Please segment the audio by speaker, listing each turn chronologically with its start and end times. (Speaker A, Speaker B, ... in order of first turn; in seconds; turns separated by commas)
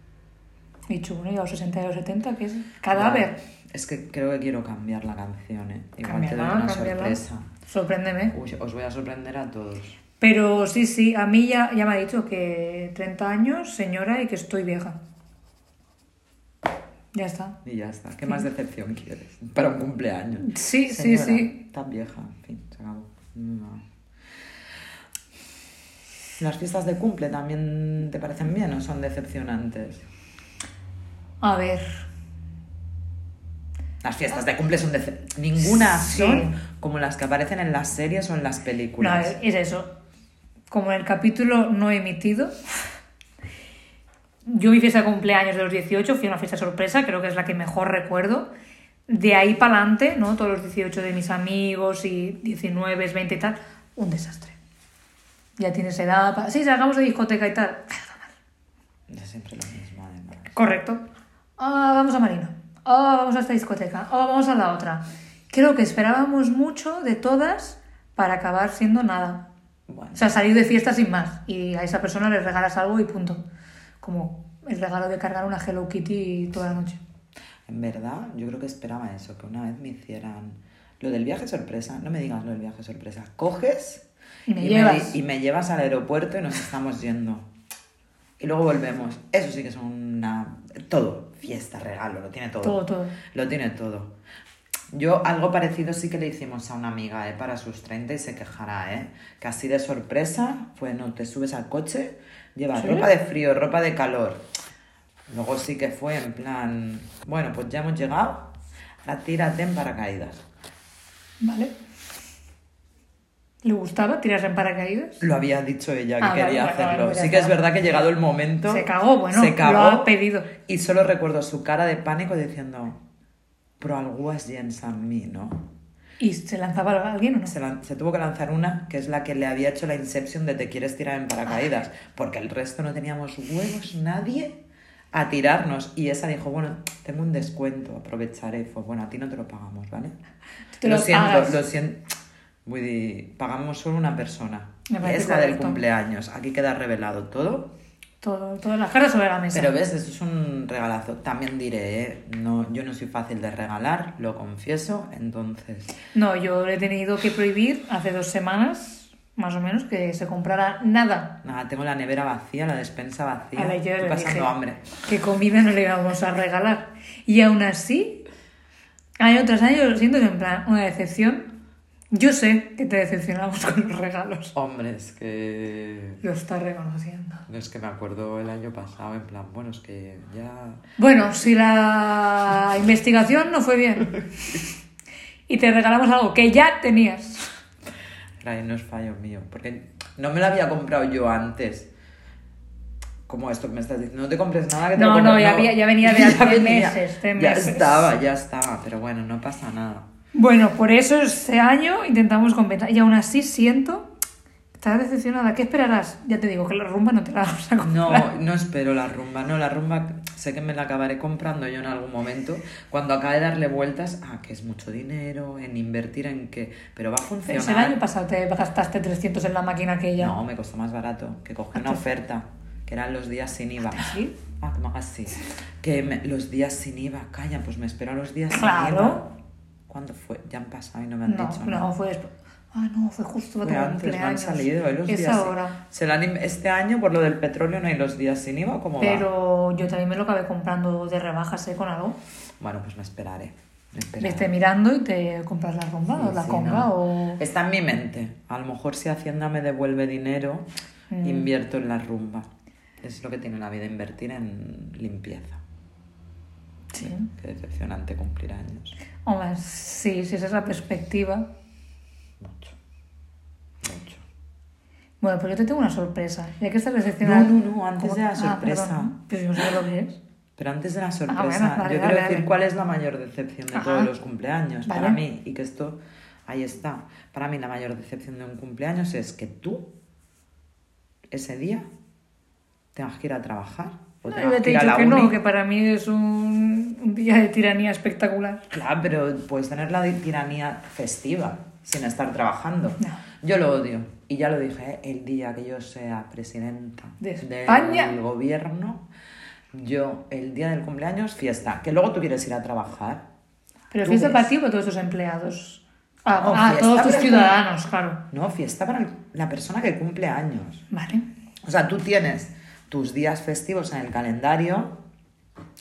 Speaker A: 0.9-3.4, Speaker B: 2.9-7.5, Speaker A: 6.0-8.3, Speaker B: 8.3-10.0, Speaker A: 10.2-15.0, Speaker A: 17.1-17.6, Speaker B: 17.6-23.8, Speaker A: 20.4-21.6, Speaker B: 26.4-30.0, Speaker A: 31.4-32.0, Speaker B: 34.0-39.3, Speaker A: 35.7-36.5, Speaker A: 39.0-39.9, Speaker A: 40.7-42.5, Speaker A: 44.4-48.5, Speaker A: 49.1-54.5, Speaker A: 55.6-58.3, Speaker B: 59.1-60.5, Speaker A: 60.5-61.0, Speaker A: 61.6-69.4, Speaker B: 69.9-70.3, Speaker A: 70.1-73.4, Speaker A: 74.0-77.0, Speaker B: 77.7-84.0, Speaker A: 84.5-85.2, Speaker B: 84.6-87.5, Speaker B: 88.4-94.1, Speaker A: 92.6-93.1, Speaker B: 94.9-104.4, Speaker A: 102.8-103.1, Speaker B: 105.3-108.5, Speaker B: 109.0-110.4, Speaker A: 111.4-111.7, Speaker A: 113.6-115.2, Speaker B: 115.2-123.0, Speaker A: 116.2-117.5, Speaker A: 118.7-120.5, Speaker B: 123.8-125.7, Speaker A: 126.2-127.5, Speaker B: 127.5-134.6, Speaker B: 135.1-140.1, Speaker A: 140.8-141.6, Speaker B: 140.8-142.0, Speaker B: 142.6-147.7, Speaker A: 144.9-145.8, Speaker A: 148.2-149.8, Speaker B: 149.5-155.9, Speaker A: 156.1-161.3, Speaker B: 161.4-164.9, Speaker A: 163.6-164.5, Speaker A: 165.1-168.2, Speaker A: 169.2-171.5, Speaker A: 172.1-174.5, Speaker B: 174.5-176.2, Speaker A: 176.2-177.4, Speaker B: 177.5-180.8, Speaker A: 181.0-184.6, Speaker A: 185.5-187.5, Speaker B: 188.4-191.9, Speaker B: 193.2-200.1, Speaker A: 194.9-198.1, Speaker A: 200.3-204.1, Speaker A: 204.7-208.3, Speaker B: 207.8-218.0, Speaker A: 217.4-220.3, Speaker B: 220.2-229.3, Speaker A: 221.7-222.0, Speaker A: 223.9-224.3, Speaker A: 228.5-229.2, Speaker B: 229.9-231.8, Speaker A: 231.2-235.8, Speaker B: 233.6-239.2, Speaker A: 239.0-242.2, Speaker B: 242.6-244.5, Speaker A: 244.2-247.4, Speaker B: 246.1-250.7, Speaker A: 251.1-251.5, Speaker B: 251.2-252.5, Speaker B: 253.0-255.6, Speaker A: 256.9-257.3, Speaker B: 257.0-259.0, Speaker A: 259.2-261.4, Speaker B: 262.4-262.7, Speaker B: 263.8-264.2, Speaker A: 265.2-270.2, Speaker B: 267.2-269.1, Speaker B: 270.6-279.9, Speaker A: 271.3-272.5, Speaker A: 273.7-274.1, Speaker A: 274.9-275.2, Speaker B: 281.3-281.8, Speaker B: 282.9-285.4, Speaker A: 284.3-288.6, Speaker B: 288.7-299.1, Speaker A: 297.2-298.1, Speaker B: 299.7-303.2, Speaker A: 303.9-308.2, Speaker B: 304.0-304.5, Speaker B: 306.4-307.6, Speaker B: 308.3-310.8, Speaker A: 310.9-311.2, Speaker B: 311.6-315.0